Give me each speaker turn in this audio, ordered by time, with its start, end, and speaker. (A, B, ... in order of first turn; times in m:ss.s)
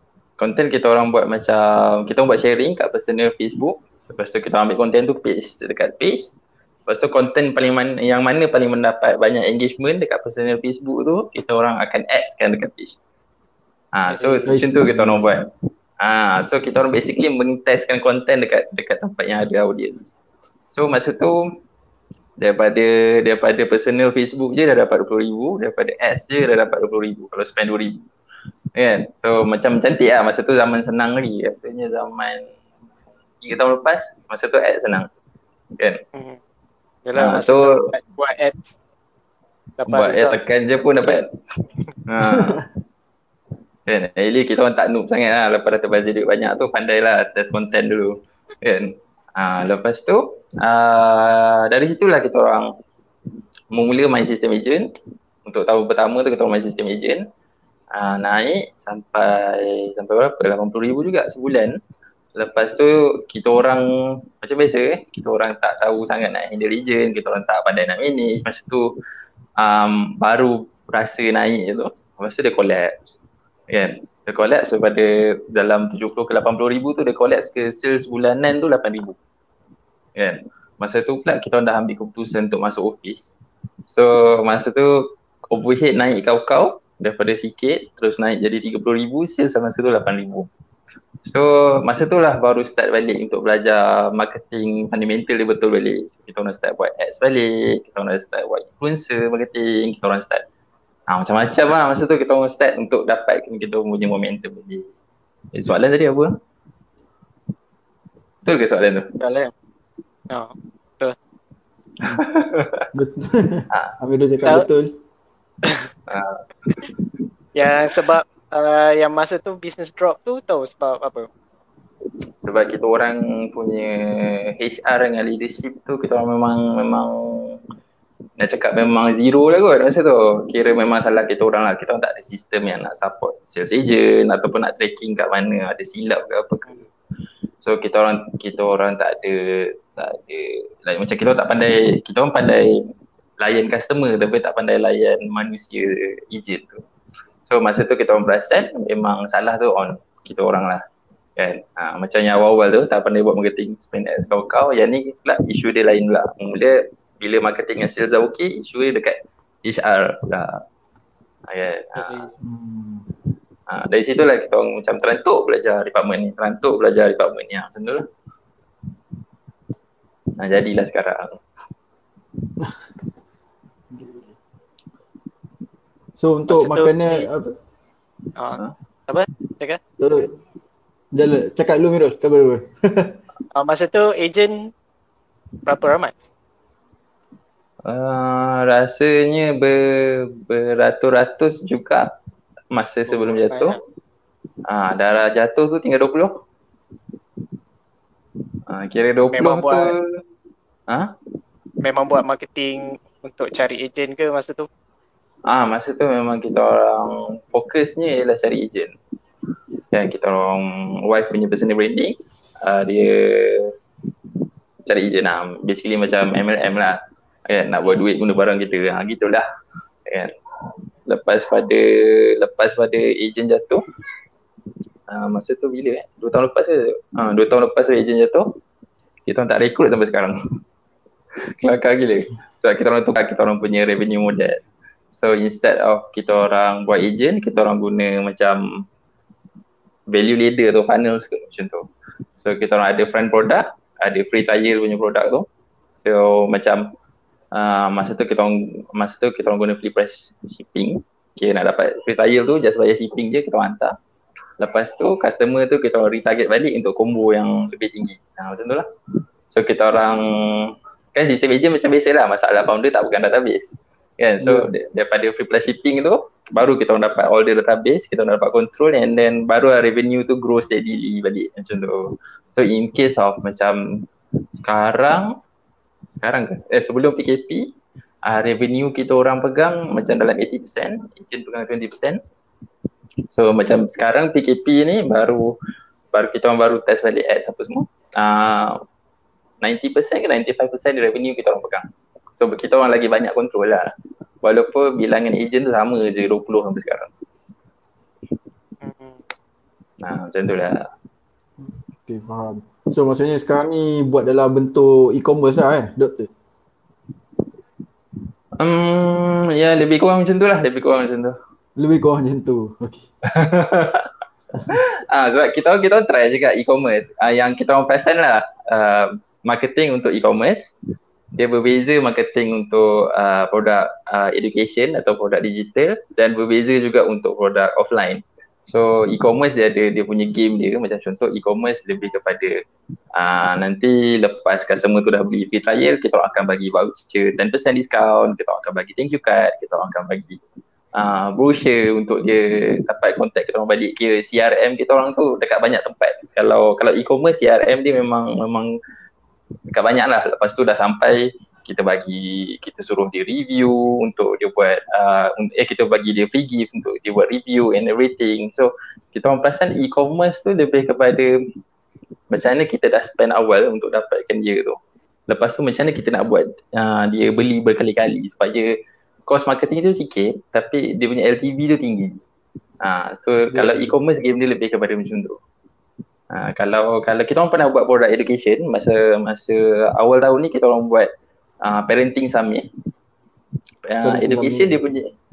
0:00.4-0:06.3 A
0:06.9-0:13.0 A
0:13.9-0:15.5 A
0:14.1-0:14.5 B
0:14.5-0:15.4 C
0:16.0-0:20.1 A
0:20.7-0:21.4 A
0:22.4-0:28.0 A
0:28.8-0:32.5 A
0:33.4-0:35.1 A
0:36.1-0:36.4 B
0:37.1-0:38.7 B
0:37.2-0:37.8 A
0:39.8-0:40.4 B
0:39.9-0:41.3 A
0:42.1-0:42.6 A
0:42.3-0:42.6 C
0:43.9-0:52.7 A
0:53.7-0:54.9 A
0:55.5-0:57.2 A
0:57.9-1:01.8 A
1:02.4-1:08.9 A
1:09.6-1:13.2 A
1:13.7-1:19.2 A
1:20.2-1:23.3 A
1:23.9-1:30.5 A
1:31.3-1:40.4 A
1:41.1-1:44.9 A
1:45.5-1:46.3 A
1:48.4-1:49.1 A
1:49.2-1:49.5 B
1:50.3-1:51.2 B
1:52.1-1:52.9 A
1:52.9-1:54.9 C
1:56.1-1:56.8 A
1:57.6-2:01.3 B
2:02.4-2:07.6 A
2:08.4-2:16.7 A
2:17.6-2:22.8 A
2:23.4-2:26.8 A
2:27.5-2:30.8 A
2:31.4-2:40.6 A
2:41.5-2:42.3 A
2:42.0-2:42.3 B
2:42.4-2:43.1 C
2:43.7-2:48.0 A
2:50.4-2:51.4 A
2:53.9-2:54.3 C
2:56.2-2:57.5 C
2:56.5-2:57.3 B
2:58.4-2:59.8 B
3:00.0-3:00.3 C
3:01.1-3:03.2 C
3:03.6-3:04.7 B
3:05.7-3:06.1 B
3:07.9-3:12.1 A
3:12.7-3:13.8 A
3:13.1-3:13.8 B
3:14.7-3:16.3 A
3:18.7-3:20.0 A
3:19.3-3:19.9 B
3:21.8-3:24.7 B
3:25.5-3:29.0 A
3:29.9-3:33.7 A
3:34.9-3:39.4 A
3:40.1-3:40.3 A
3:41.1-3:43.8 A
3:45.1-3:48.6 A
3:49.3-3:50.4 A
3:51.6-3:54.6 A
3:55.1-3:58.8 A
4:00.1-4:01.9 A
4:02.4-4:05.5 A
4:06.0-4:06.9 A
4:07.5-4:14.0 A
4:14.6-4:18.8 A
4:19.5-4:35.4 A
4:24.4-4:24.7 C
4:36.2-4:37.7 A
4:38.2-4:42.2 A
4:43.3-4:45.6 A
4:46.1-4:48.8 A
4:49.6-4:51.9 A
4:52.4-4:53.9 A
4:54.4-4:57.1 A
4:58.8-4:59.2 B
5:00.0-5:00.9 A
5:01.6-5:06.3 C
5:08.6-5:11.4 A
5:11.8-5:13.0 C
5:13.3-5:14.1 A
5:14.7-5:20.7 A
5:21.4-5:32.5 A
5:33.2-5:40.4 A
5:41.0-5:48.7 A
5:49.7-6:01.3 A
6:02.3-6:12.2 A
6:12.8-6:15.4 A
6:13.5-6:14.0 C
6:16.3-6:21.1 A
6:21.6-6:22.7 A
6:23.9-6:25.1 A
6:24.0-6:24.8 C